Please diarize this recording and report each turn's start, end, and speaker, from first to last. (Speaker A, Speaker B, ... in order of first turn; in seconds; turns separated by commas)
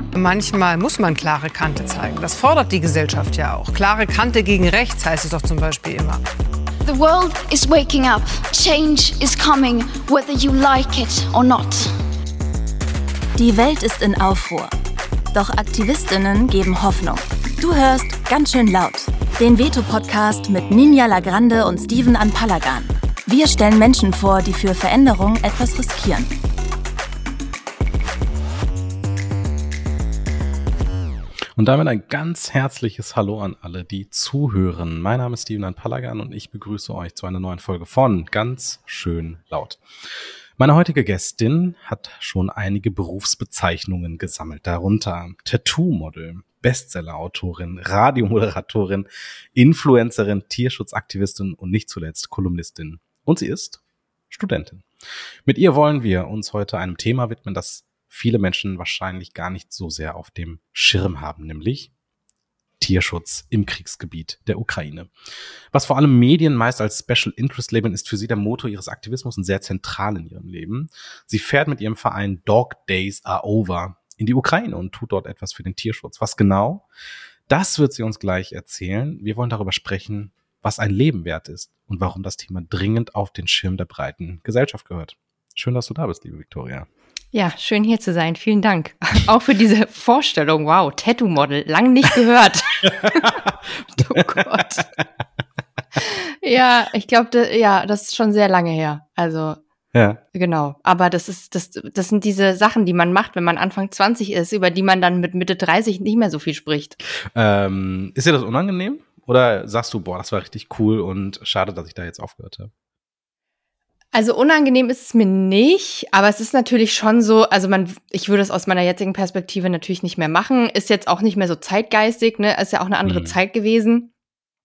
Speaker A: 0.1-6.2, Speaker B: 6.8-12.0, Speaker C: 13.4-14.7, Speaker C: 15.3-26.3, Speaker D: 31.6-39.8, Speaker D: 40.6-53.8, Speaker D: 54.3-54.9, Speaker D: 55.5-61.9, Speaker D: 62.8-65.1, Speaker D: 65.7-76.8, Speaker D: 77.5-86.9, Speaker E: 87.3-93.4, Speaker D: 93.2-93.5, Speaker E: 94.0-94.9, Speaker D: 94.1-94.8, Speaker E: 96.0-99.6, Speaker D: 99.9-100.2, Speaker E: 100.3-107.0, Speaker D: 107.3-112.7, Speaker E: 114.1-124.1, Speaker D: 123.1-123.4